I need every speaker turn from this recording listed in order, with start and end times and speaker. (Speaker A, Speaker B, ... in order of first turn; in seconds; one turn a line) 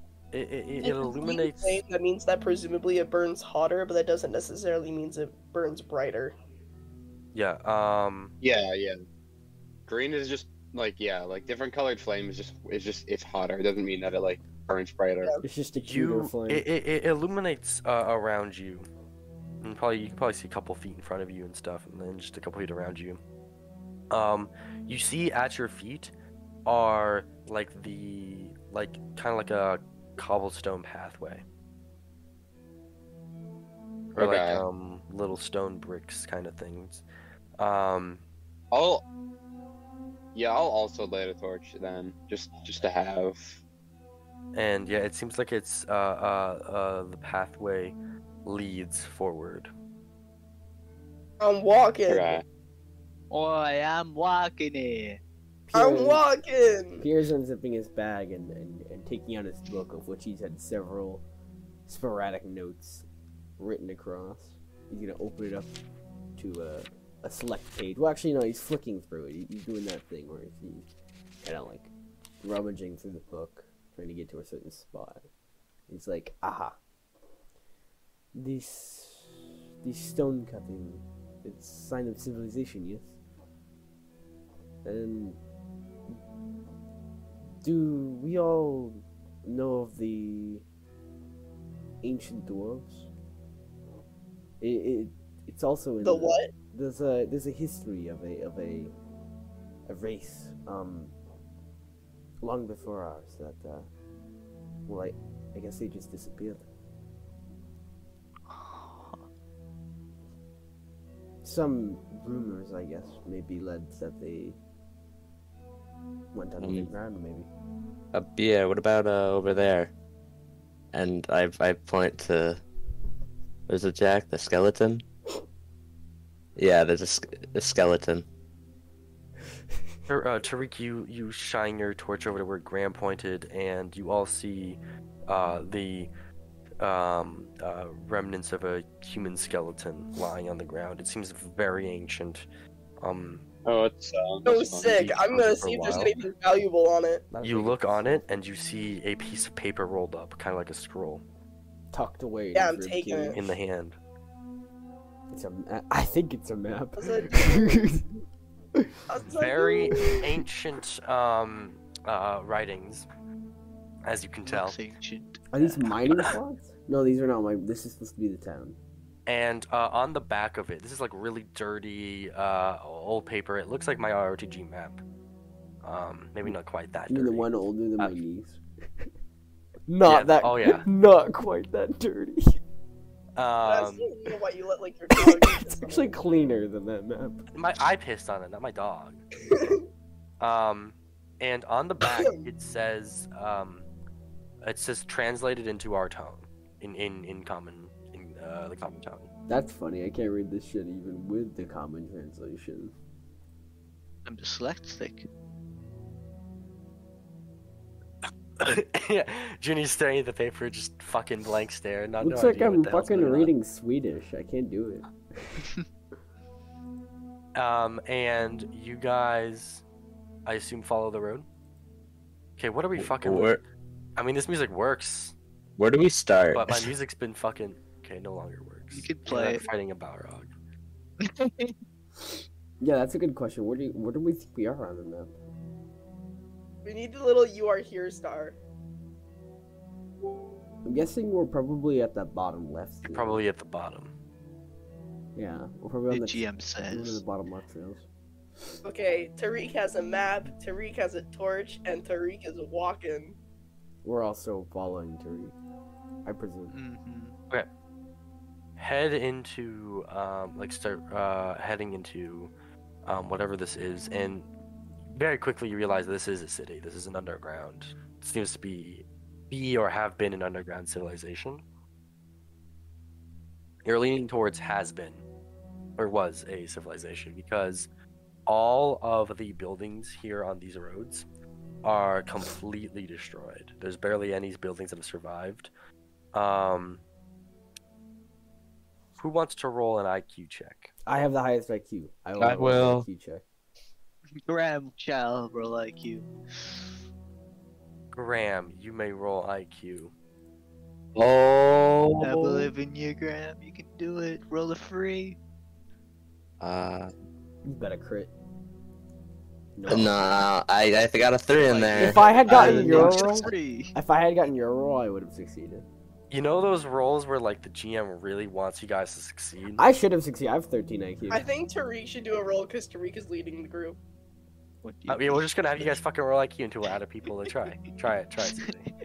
Speaker A: 0.3-1.8
Speaker B: 0.8-6.4
Speaker A: 7.3-8.3
Speaker C: 8.4-9.0
Speaker C: 9.9-15.3
Speaker D: 15.4-16.6
Speaker A: 15.8-18.9
Speaker A: 19.6-23.2
Speaker A: 24.1-26.1
Speaker A: 26.6-31.4
Speaker A: 34.1-37.0
Speaker C: 34.1-34.6
Speaker A: 37.6-38.2
Speaker C: 38.7-39.0
Speaker C: 40.3-43.6
Speaker A: 44.5-49.7
Speaker B: 51.4-52.4
Speaker C: 52.1-52.4
Speaker E: 53.3-55.2
Speaker D: 55.7-56.2
Speaker B: 55.7-57.0
Speaker D: 57.0-61.2
Speaker D: 61.9-63.0
Speaker D: 63.6-65.7
Speaker D: 66.3-70.9
Speaker D: 71.4-75.2
Speaker D: 75.9-76.8
Speaker D: 78.3-83.1
Speaker D: 84.8-85.4
Speaker D: 87.6-90.6
Speaker D: 92.0-93.1
Speaker D: 94.6-98.9
Speaker B: 96.0-96.5
Speaker D: 99.8-101.1
Speaker D: 102.4-103.9
Speaker D: 104.9-106.7
Speaker E: 108.5-109.2
Speaker D: 111.4-114.6
Speaker D: 116.3-117.5
Speaker F: 116.6-116.9
Speaker F: 118.1-119.9
Speaker F: 120.9-122.6
Speaker F: 123.7-125.0
Speaker F: 126.5-128.3
Speaker A: 130.1-136.1
Speaker A: 136.8-142.4
Speaker A: 143.0-143.4
Speaker C: 143.6-145.1
Speaker B: 144.4-147.2
Speaker A: 144.9-146.1
Speaker D: 147.3-148.2
Speaker A: 147.4-151.2
Speaker D: 151.9-153.5
Speaker B: 152.5-153.4
Speaker A: 153.3-154.0
Speaker D: 155.3-158.1
Speaker B: 157.0-157.9
Speaker B: 159.1-160.2
Speaker A: 159.4-163.1
Speaker A: 164.1-164.8
Speaker E: 164.5-166.2
Speaker D: 165.5-168.8
Speaker A: 169.3-175.0
Speaker A: 175.8-177.5
Speaker D: 177.1-179.1
Speaker D: 179.9-182.6
Speaker A: 180.0-180.9
Speaker A: 183.4-184.1
Speaker B: 183.6-186.2
Speaker D: 185.2-187.4
Speaker A: 187.5-189.2
Speaker B: 189.5-189.8
Speaker A: 190.4-193.9
Speaker A: 194.6-199.3
Speaker D: 199.5-202.9
Speaker E: 204.2-205.3
Speaker A: 208.6-213.5
Speaker D: 212.2-215.7
Speaker A: 217.5-219.8
Speaker A: 220.4-221.4
Speaker A: 222.6-223.6
Speaker F: 223.0-223.6
Speaker A: 224.2-225.3
Speaker F: 225.8-226.9
Speaker A: 226.5-230.5
Speaker E: 228.9-229.6
Speaker E: 231.2-231.8
Speaker D: 232.8-235.3
Speaker B: 236.8-238.6
Speaker D: 240.8-243.4
Speaker A: 243.0-244.1
Speaker D: 245.3-248.1
Speaker E: 246.1-247.2
Speaker B: 248.8-253.3
Speaker D: 254.0-255.6
Speaker D: 256.2-256.7
Speaker E: 256.7-257.3
Speaker A: 258.8-262.5
Speaker A: 263.0-264.5
Speaker A: 265.1-271.6
Speaker A: 273.8-275.2
Speaker A: 276.0-277.9
Speaker A: 278.5-281.2
Speaker A: 281.8-285.7
Speaker A: 286.3-287.0
Speaker A: 289.2-290.9
Speaker D: 291.1-293.4
Speaker F: 292.4-293.1
Speaker E: 294.4-297.0
Speaker A: 298.1-300.1
Speaker F: 301.1-302.7
Speaker E: 302.2-305.4
Speaker F: 306.6-307.1
Speaker D: 307.6-308.3
Speaker D: 309.8-310.3
Speaker F: 309.9-313.4
Speaker E: 311.6-313.9
Speaker D: 312.0-315.9
Speaker A: 316.3-319.8
Speaker D: 319.8-321.4
Speaker B: 321.3-324.0
Speaker E: 324.8-326.0
Speaker A: 325.1-328.9
Speaker E: 328.4-328.7